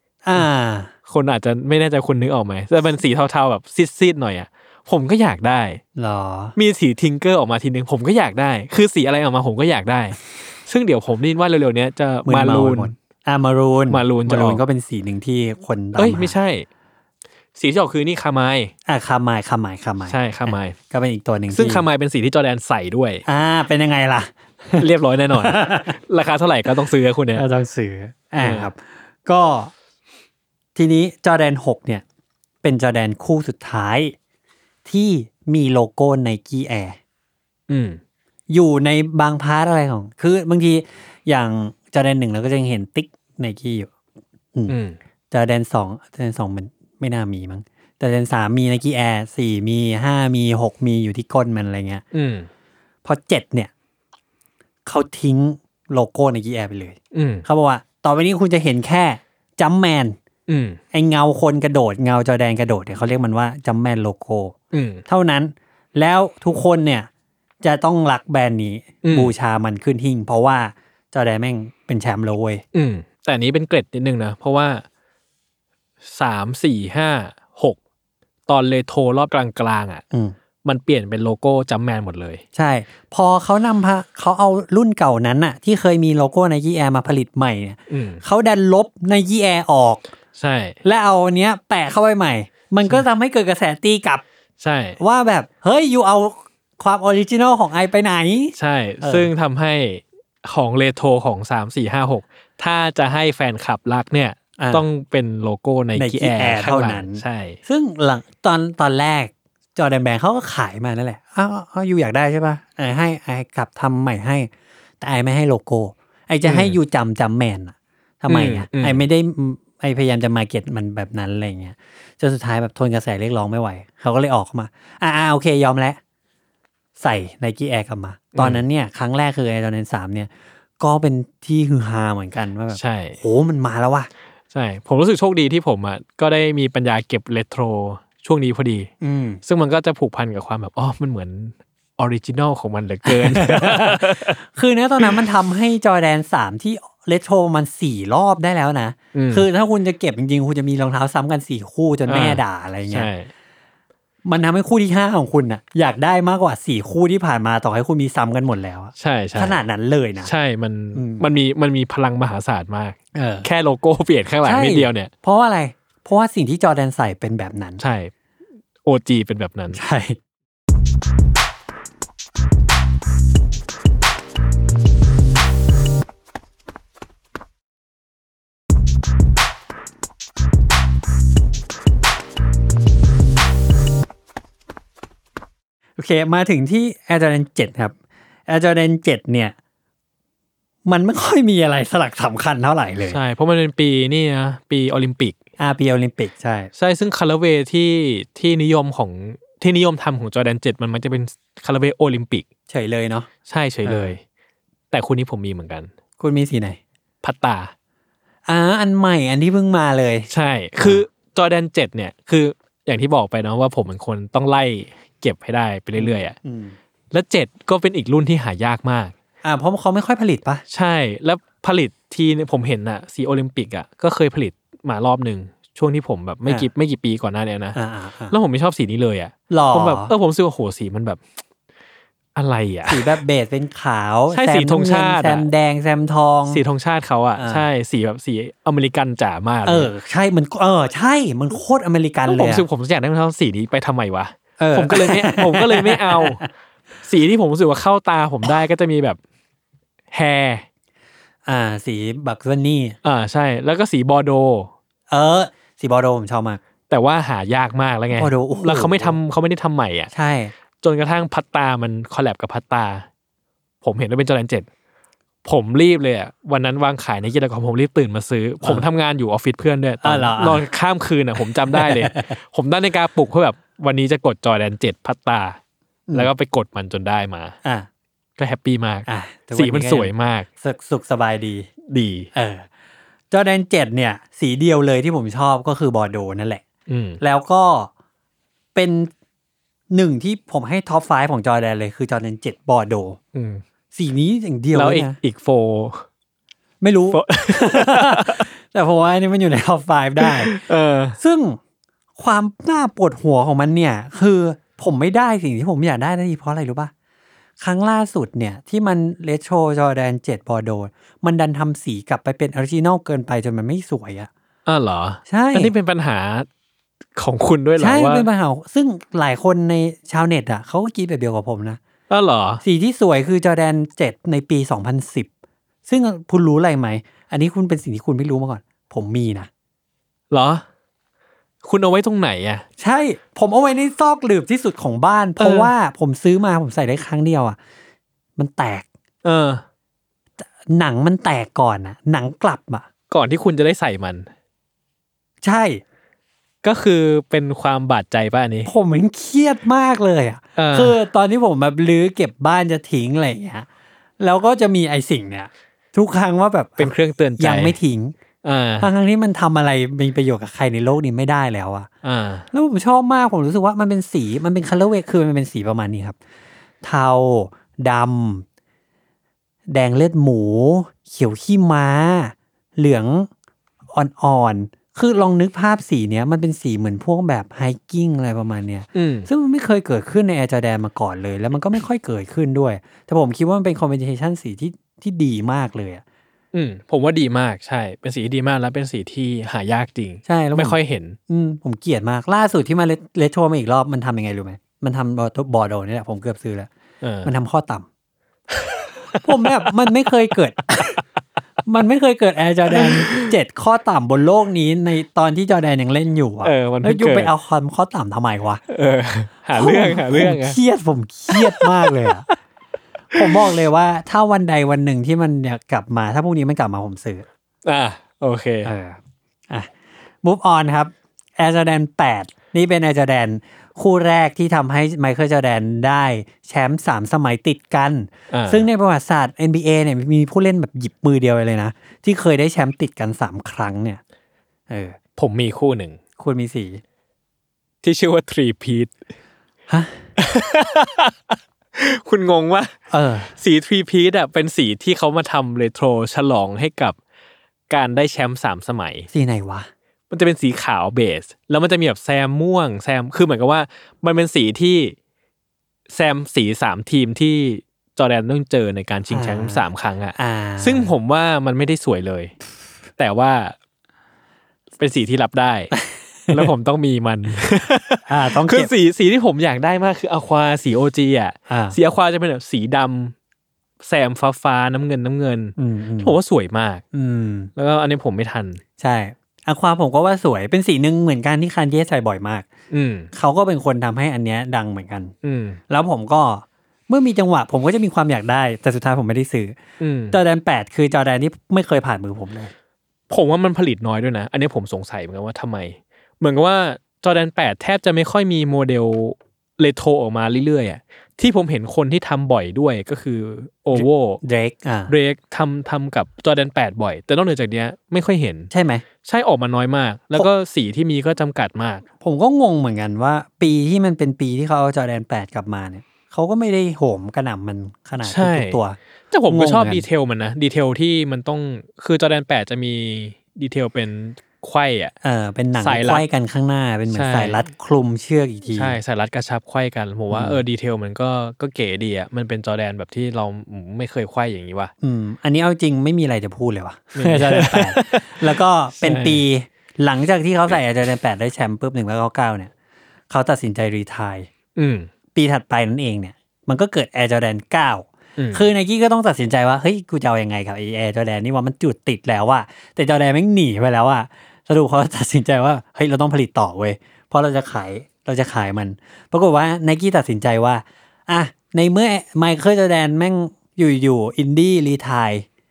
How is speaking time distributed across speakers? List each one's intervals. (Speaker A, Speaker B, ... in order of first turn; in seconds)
Speaker A: 0.2-0.9, 6.0-6.6, 12.2-16.4, 18.9-21.9, 23.3-25.9, 27.4-29.7, 30.8-32.0, 32.6-34.1, 34.9-37.0, 38.5-43.9, 45.3-52.0, 53.0-53.7, 54.9-60.2, 60.9-64.5, 65.1-67.1, 67.6-72.6, 82.5-90.0, 90.8-94.2, 95.0-99.3, 104.6-104.8, 106.0-114.5, 115.0-126.0, 127.0-134.1, 139.0-139.4, 143.1-153.1, 154.2-160.3, 160.9-161.2, 163.1-163.5, 164.4-167.8, 169.7-170.2, 186.0-187.9, 188.5-189.6, 190.8-193.2, 195.6-196.7, 202.7-203.3, 203.8-204.2, 206.2-206.8, 208.5-210.3, 215.9-216.8, 219.4-220.6, 227.8-228.3, 229.5-230.1, 232.9-236.6, 237.4-237.7, 239.7-242.7, 244.6-246.5, 251.5-253.0, 255.1-256.6, 258.1-259.2, 260.1-260.5, 270.0-270.6, 271.7-272.3, 279.1-281.7, 282.3-282.7, 283.3-286.6, 287.2-287.9, 288.8-289.1, 289.9-293.2, 293.9-295.2, 296.8-300.6, 301.2-301.6, 302.2-306.9, 307.6-314.3, 315.3-315.7, 317.8-321.8, 322.6-325.3, 325.9-329.5, 332.8-337.6, 338.4-338.9, 340.6-342.9, 345.4-345.8, 348.6-353.7, 354.2-358.2, 358.8-361.9, 362.5-366.2, 366.8-368.5, 369.7-373.3, 373.9-386.0, 390.3-390.8, 391.3-396.7, 397.2-397.9, 399.2-401.0, 401.7-408.6, 409.6-412.3, 413.1-417.2, 418.6-434.0, 434.7-435.0, 436.2-436.8, 439.7-440.0, 442.9-443.3, 449.1-449.7, 459.1-459.6, 460.1-460.9, 468.1-468.7, 471.5-471.8, 475.6-476.2, 476.9-477.5, 478.8-482.5, 483.1-485.1, 485.7-489.6, 490.1-492.5, 503.7-504.9, 508.5-508.8, 512.0-519.9, 525.0-528.8, 530.1-530.4, 534.8-542.5, 543.1-544.3, 545.1-565.3
Speaker B: 1.1-5.8, 6.6-12.9, 13.9-14.6, 16.0-16.7, 17.6-18.7, 20.1-20.8, 21.5-23.2, 24.8-27.4, 28.4-28.7, 37.7-38.0, 44.7-45.0, 52.1-52.5, 57.1-57.5, 60.5-60.8, 64.7-65.0, 69.0-69.3, 72.7-74.8, 76.0-77.8, 78.5-80.0, 80.6-82.4, 87.9-88.2, 90.4-90.8, 94.6-95.0, 98.6-107.6, 116.5-116.8, 118.3-119.0, 128.3-128.6, 132.7-133.2, 134.5-138.9, 139.4-144.4, 149.2-149.4, 152.1-153.3, 159.0-159.6, 160.2-165.1, 167.8-168.1, 168.8-169.8, 193.1-195.4, 196.8-202.4, 203.5-204.2, 204.9-205.9, 207.2-207.7, 210.3-216.4, 217.1-219.1, 220.7-227.8, 228.3-231.2, 232.3-233.2, 234.3-235.5, 236.5-239.9, 242.3-246.4, 247.0-249.2, 250.1-250.7, 253.0-254.7, 256.9-260.1, 260.8-263.1, 263.8-264.7, 265.4-275.6, 276.1-277.6, 278.4-280.5, 281.9-282.3, 286.9-287.2, 293.3-293.6, 294.7-296.1, 297.1-298.5, 300.2-301.2, 314.7-316.5, 317.2-318.3, 322.1-322.6, 330.3-330.6, 331.6-332.6, 335.4-335.7, 339.2-339.6, 343.1-344.3, 346.6-348.7, 350.6-351.0, 356.8-357.8, 358.4-358.9, 362.0-362.5, 378.9-379.3, 386.5-391.2, 397.0-397.3, 398.5-399.8, 402.7-403.3, 406.4-407.3, 408.7-410.6, 411.3-412.3, 413.1-413.5, 417.6-418.7, 428.3-428.7, 435.2-436.0, 437.8-438.9, 440.2-442.7, 443.3-447.0, 447.7-449.1, 450.1-454.9, 455.9-462.3, 463.0-463.6, 464.8-465.7, 466.3-473.1, 473.8-476.8, 477.6-478.6, 482.7-483.1, 485.2-485.6, 489.8-490.2, 493.1-504.2, 504.9-508.5, 509.0-511.9, 518.0-518.6, 519.1-524.9, 525.6-526.0, 526.9-527.4, 528.5-534.7, 537.0-539.2, 544.6-544.9, 548.2-548.5